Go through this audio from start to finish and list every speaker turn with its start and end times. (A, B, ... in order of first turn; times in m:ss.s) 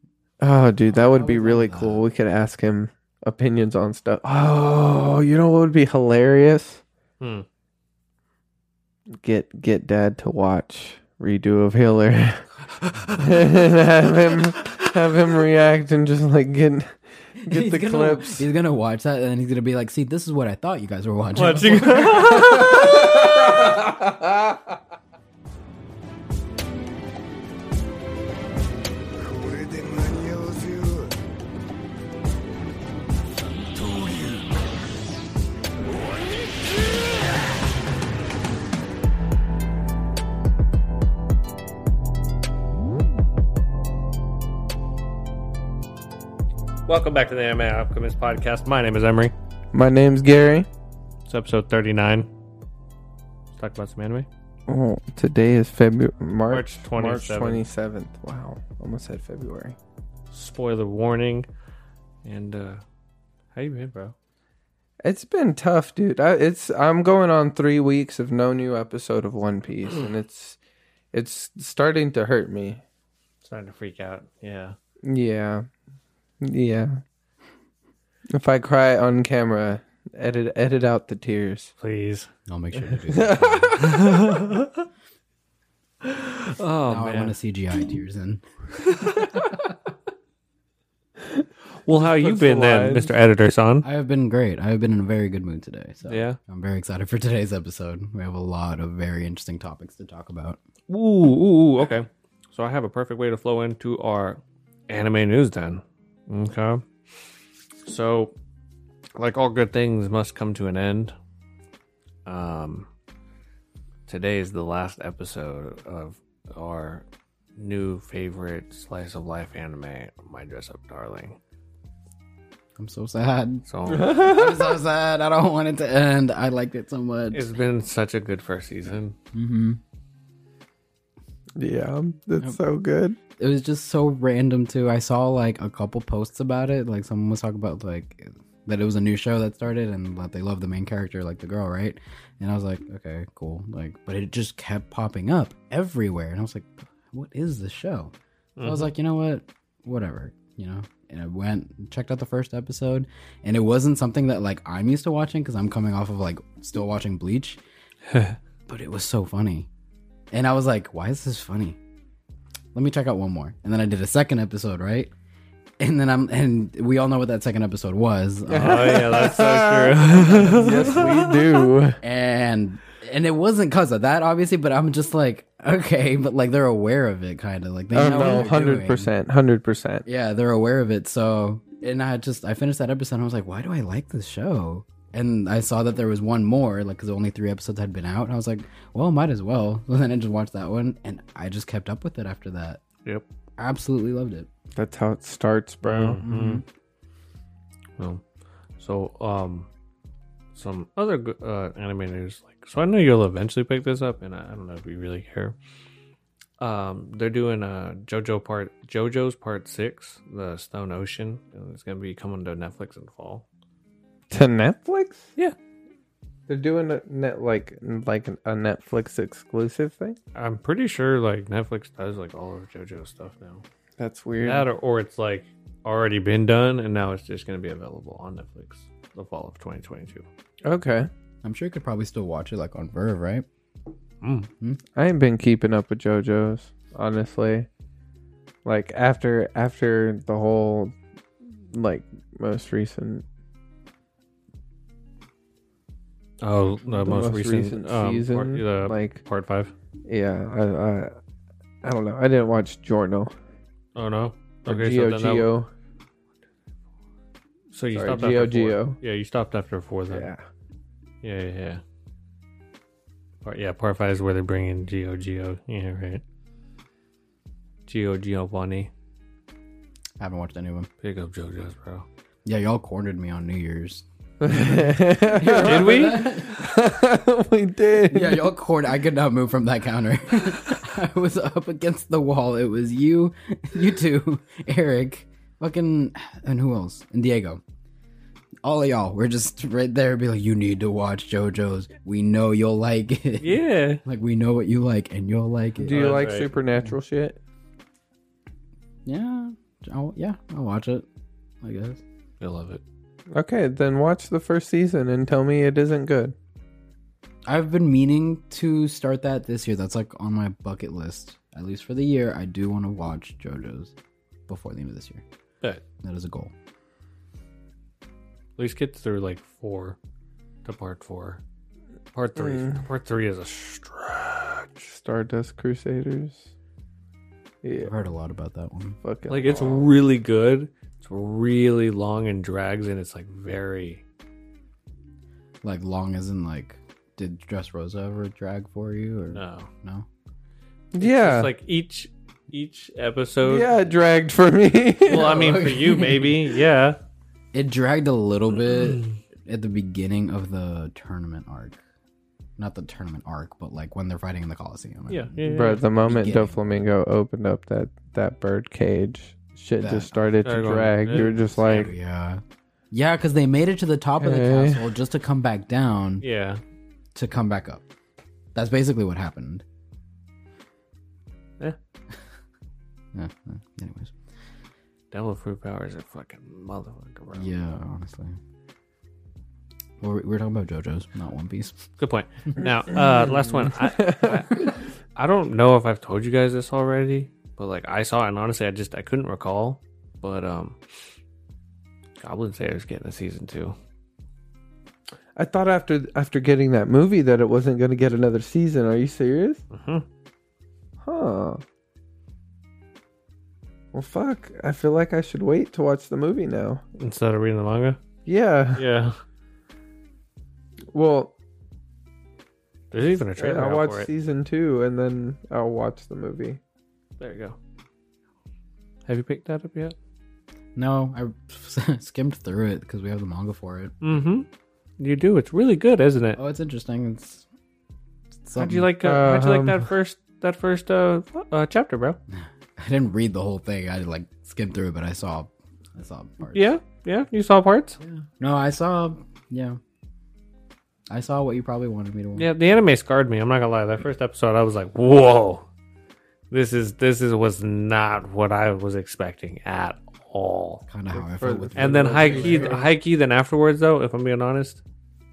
0:00.4-0:06.8 A
0:00.9-0:02.0 B
0:07.2-0:07.5 C
0:09.2-0:12.5 A
0:13.2-0:18.4 A
0:17.4-0:23.1 B
0:21.4-0:23.2 C
0:22.5-0:24.4 A
0:46.9-0:49.3 C
0:49.7-0:50.7 A
0:51.3-0:52.3 C
0:53.6-0:54.3 C
0:54.7-0:59.8 A
0:56.5-0:57.6 C
1:00.3-1:01.5 C
1:02.2-1:02.8 C
1:03.6-1:04.2 C
1:05.0-1:10.6 A
1:11.1-1:12.8 A
1:13.4-1:14.8 C
1:15.0-1:15.7 A
1:16.4-1:17.0 A
1:18.3-1:21.7 A
1:21.8-1:22.3 C
1:22.5-1:24.0 B
1:22.8-1:23.9 A
1:23.8-1:24.9 C
1:26.0-1:27.4 C
1:26.9-1:28.5 B
1:28.8-1:29.4 C
1:31.9-1:33.9 C
1:31.9-1:33.1 A
1:33.8-1:40.6 B
1:36.1-1:36.4 C
1:40.9-1:46.8 C
1:47.8-1:48.4 C
1:49.2-1:51.1 C
1:52.3-1:52.9 C
1:54.1-1:57.0 C
1:57.6-2:01.4 C
2:02.8-2:07.5 B
2:03.7-2:04.4 C
2:03.9-2:04.6 A
2:07.3-2:09.2 C
2:09.3-2:09.8 B
2:11.6-2:13.2 A
2:13.4-2:37.6 B
2:28.6-2:28.9 C
2:38.1-2:38.4 C
2:38.7-2:39.7 B
2:40.3-2:41.8 B
2:42.7-2:45.1 B
2:45.8-2:49.0 B
2:48.5-2:52.0 A
2:48.5-2:51.6 C
2:50.1-2:51.1 B
2:52.0-2:59.1 B
2:57.9-3:00.0 A
3:00.1-3:12.8 B
3:13.6-3:14.5 B
3:14.8-3:16.2 A
3:15.8-3:16.6 C
3:16.2-3:16.6 B
3:18.8-3:19.7 C
3:20.6-3:25.6 C
3:26.6-3:33.4 C
3:34.3-3:35.3 A
3:36.5-3:40.2 A
3:40.4-3:43.6 C
3:44.0-3:44.7 A
3:44.4-3:50.3 C
3:50.6-3:51.1 A
3:51.4-3:53.5 B
3:54.2-3:54.5 C
3:55.0-3:57.7 A
3:58.6-4:01.0 A
4:01.7-4:03.2 A
4:06.4-4:09.7 C
4:06.9-4:09.2 A
4:10.1-4:11.2 A
4:11.8-4:13.3 A
4:14.0-4:15.5 C
4:14.7-4:15.7 A
4:17.7-4:20.3 C
4:17.9-4:19.0 A
4:20.1-4:20.4 A
4:21.2-4:21.8 C
4:23.4-4:26.2 C
4:27.9-4:28.9 C
4:30.2-4:30.9 B
4:31.0-4:32.1 C
4:32.4-4:34.8 B
4:34.4-4:38.4 A
4:35.4-4:36.6 B
4:35.6-4:36.3 C
4:38.1-4:47.6 B
4:48.6-4:56.2 B
4:53.4-4:54.0 C
4:55.8-4:57.4 A
4:55.9-4:56.5 C
4:59.1-5:01.1 B
5:01.6-5:02.0 B
5:02.4-5:02.8 C
5:03.3-5:06.4 A
5:07.5-5:13.9 B
5:14.5-5:15.2 B
5:16.0-5:16.5 B
5:18.6-5:20.0 C
5:20.6-5:21.4 C
5:22.1-5:24.9 C
5:22.4-5:22.9 A
5:24.9-5:26.5 A
5:27.6-5:27.9 A
5:27.8-5:29.0 B
5:29.0-5:29.9 A
5:29.3-5:34.0 C
5:35.6-5:40.1 B
5:39.3-5:39.7 C
5:40.9-5:41.5 A
5:41.0-5:43.7 C
5:43.4-5:45.5 A
5:45.1-5:47.0 C
5:45.1-5:46.4 B
5:47.5-5:51.8 B
5:48.6-5:49.2 C
5:52.6-5:55.4 B
5:55.1-5:55.8 C
5:55.4-6:01.9 A
5:56.0-5:56.6 B
5:59.8-6:00.4 B
6:00.4-6:01.9 C
6:01.2-6:06.2 B
6:04.2-6:04.9 A
6:06.2-6:06.6 C
6:07.1-6:07.8 B
6:08.6-6:09.6 B
6:13.1-6:14.1 B
6:15.1-6:17.6 C
6:17.3-6:18.4 B
6:20.0-6:21.8 B
6:22.0-6:30.8 C
6:22.7-6:24.8 A
6:32.2-6:33.8 C
6:35.4-6:39.6 A
6:39.7-6:40.0 C
6:41.0-6:41.6 A
6:43.9-6:46.8 A
6:47.0-6:48.0 C
6:48.3-6:48.8 A
6:48.8-6:49.2 C
6:50.9-6:51.3 A
6:52.9-6:54.1 C
6:53.4-6:56.6 A
6:57.2-6:57.6 C
6:59.1-7:00.0 C
7:00.8-7:04.3 B
7:04.0-7:04.5 C
7:05.0-7:06.4 C
7:06.4-7:07.5 B
7:08.4-7:08.9 B
7:08.6-7:12.2 C
7:09.0-7:09.9 A
7:12.3-7:16.7 B
7:16.5-7:18.0 C
7:18.0-7:19.8 B
7:21.1-7:22.5 B
7:22.4-7:25.7 C
7:26.5-7:30.8 C
7:30.9-7:32.9 B
7:31.2-7:32.9 A
7:31.8-7:34.8 C